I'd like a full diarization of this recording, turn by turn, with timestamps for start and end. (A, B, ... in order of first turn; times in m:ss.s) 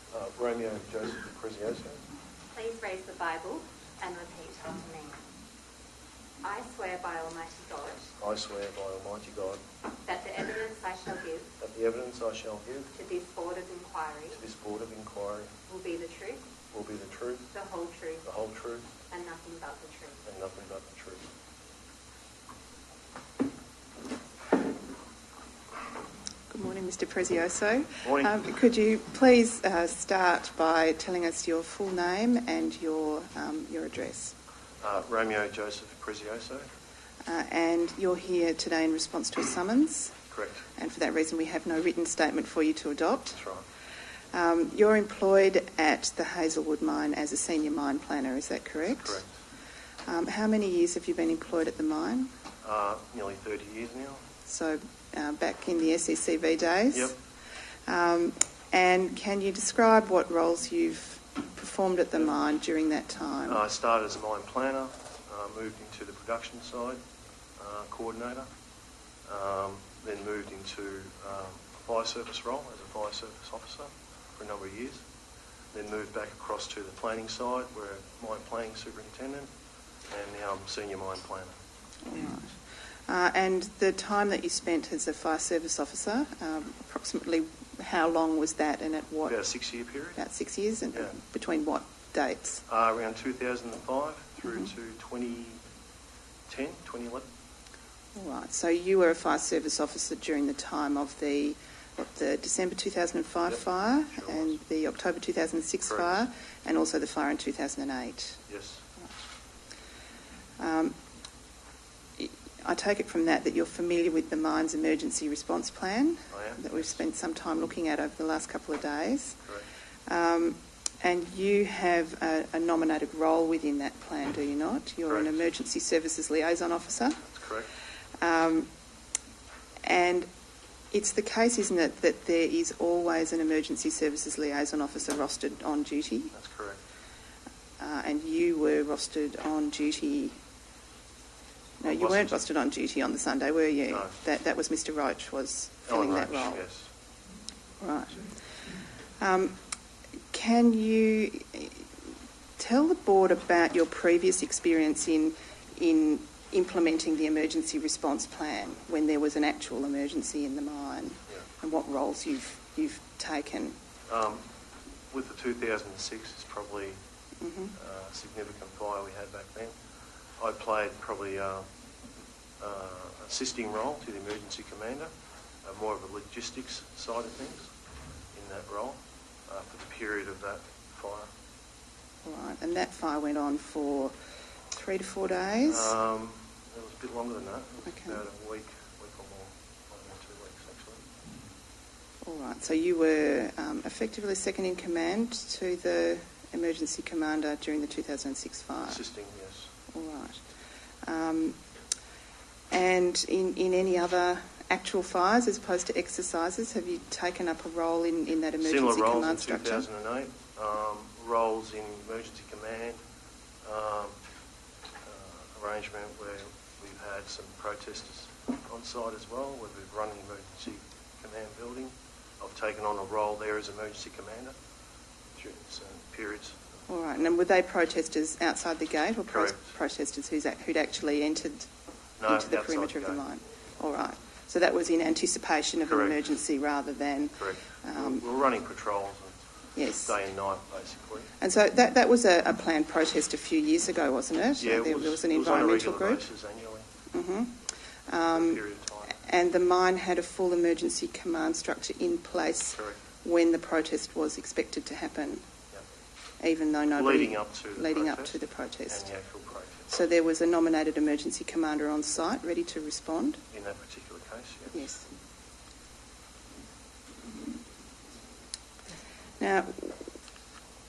0:00.1-0:02.0 A
0:02.5-0:05.2 B
0:06.4-0:08.1 B
0:08.2-0:09.6 A
0:10.0-0:11.5 B
0:11.6-0:12.9 A
0:12.9-0:14.4 B
0:14.3-0:15.5 A
0:15.7-0:16.4 B
0:16.7-0:17.5 A
0:17.5-0:18.2 B
0:18.2-0:18.9 A
0:19.1-0:20.2 B
0:20.2-0:21.3 A
0:26.5-0:34.4 C
0:28.0-0:28.4 A
0:34.8-0:36.7 A
0:37.2-0:40.2 C
0:40.3-0:40.7 A
0:40.8-0:43.4 C
0:43.3-0:43.7 A
0:44.3-0:49.2 C
0:48.8-0:49.3 A
0:50.1-0:52.3 C
0:52.6-0:54.2 A
0:54.4-0:57.1 C
0:57.9-1:03.6 C
1:03.5-1:07.0 A
1:07.6-1:08.5 A
1:09.3-1:15.0 A
1:15.7-1:19.5 A
1:20.1-1:21.6 A
1:22.0-1:29.4 C
1:29.3-1:30.2 A
1:30.2-1:32.6 C
1:32.7-1:35.6 A
1:36.5-1:37.3 A
1:38.2-1:48.4 C
1:44.1-1:44.6 A
1:48.5-1:48.8 A
1:50.6-1:51.0 C
1:52.2-1:59.4 C
1:56.3-1:57.0 A
2:00.1-2:07.3 C
2:05.1-2:05.4 A
2:07.3-2:07.7 A
2:08.2-2:08.7 C
2:09.8-2:10.3 C
2:10.9-2:16.3 C
2:16.3-2:16.8 A
2:17.8-2:20.4 C
2:21.8-2:26.6 C
2:21.8-2:22.4 A
2:25.9-2:26.9 A
2:27.8-2:28.2 C
2:29.2-2:29.6 C
2:30.3-2:31.8 C
2:32.6-2:43.8 C
2:44.1-2:44.4 A
2:45.1-2:47.0 A
2:47.4-2:47.7 C
2:47.8-2:49.7 A
2:50.4-2:51.7 A
2:52.6-2:55.1 A
2:55.6-2:57.7 A
2:58.3-3:01.3 A
3:02.2-3:04.1 C
3:04.7-3:05.9 C
3:05.7-3:11.0 A
3:07.9-3:08.2 C
3:12.2-3:19.0 C
3:18.9-3:19.7 A
3:19.9-3:20.4 C
3:21.0-3:21.6 C
3:22.7-3:29.9 C
3:28.6-3:33.0 A
3:33.6-3:34.2 A
3:35.0-3:44.6 A
3:45.4-3:46.6 A
3:46.9-3:51.7 C
3:49.3-3:49.7 A
3:52.2-3:53.2 A
3:52.3-3:58.2 C
3:55.8-3:56.2 A
3:57.4-3:59.4 A
3:59.8-4:00.1 C
4:00.1-4:01.3 A
4:01.4-4:06.3 C
4:04.6-4:06.9 A
4:07.1-4:07.5 C
4:08.1-4:08.6 C
4:08.3-4:09.2 A
4:09.1-4:15.5 C
4:16.4-4:19.1 C
4:16.9-4:19.9 A
4:19.9-4:23.4 C
4:23.5-4:24.9 A
4:24.7-4:25.1 C
4:29.4-4:30.0 C